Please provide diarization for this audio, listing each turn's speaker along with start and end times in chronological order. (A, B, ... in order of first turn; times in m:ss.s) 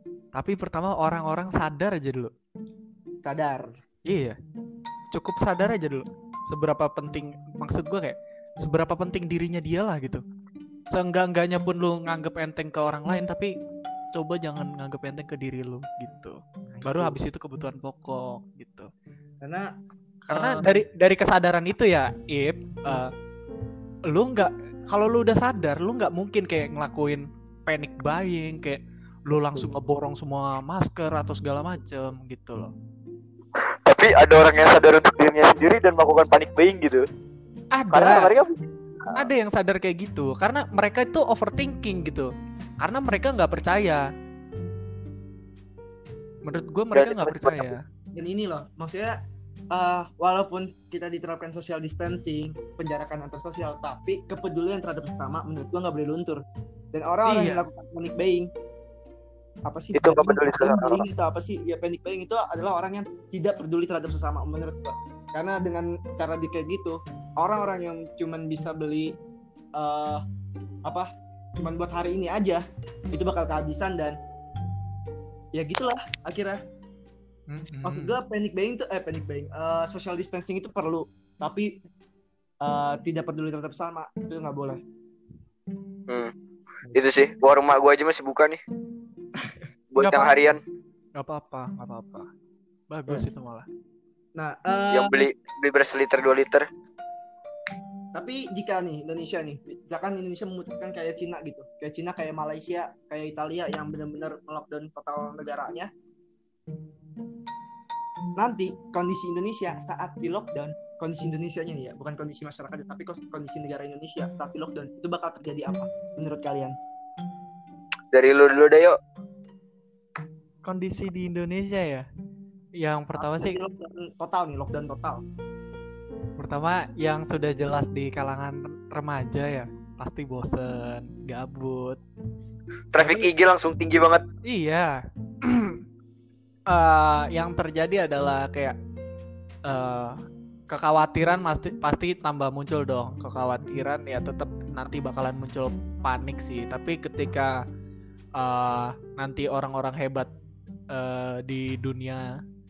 0:00.3-0:02.3 A
0:03.2-0:03.7 B
0:04.1-0:04.3 A
0:05.1-0:10.2 A
0:10.9-0:13.5 A
0:14.1-0:18.9 A
0:16.7-0:17.2 B
0:19.4-0:19.7 B
0:20.3-0:23.1 A
0:20.3-0:20.8 B
0:24.1-0:32.7 A
0:33.6-0:37.0 C
0:37.7-0:38.3 A
0:37.9-0:39.1 C
0:39.1-0:44.0 A
0:46.4-0:47.8 A
0:46.9-0:47.7 C
0:48.1-0:49.2 B
0:49.7-0:58.5 B
0:57.2-0:57.6 A
0:59.7-1:09.1 B
0:59.9-1:01.0 C
1:09.8-1:10.2 B
1:10.8-1:14.2 B
1:15.5-1:16.6 B
1:17.5-1:18.2 A
1:17.8-1:21.8 B
1:22.6-1:24.8 B
1:26.9-1:28.6 C
1:29.9-1:30.6 C
1:30.0-1:30.6 A
1:31.2-1:32.3 A
1:32.9-1:33.6 A
1:34.4-1:35.2 B
1:34.9-1:36.6 C
1:38.1-1:45.9 B
1:48.4-1:56.8 B
1:58.1-1:59.0 C
2:00.6-2:02.0 A
2:02.8-2:03.6 A
2:03.1-2:05.2 B
2:06.4-2:12.0 A
2:12.9-2:14.2 C
2:13.0-2:13.3 A
2:14.4-2:15.8 A
2:16.7-2:18.7 A
2:19.6-2:20.2 A
2:20.7-2:27.6 A
2:28.4-2:30.3 A
2:30.9-2:32.3 A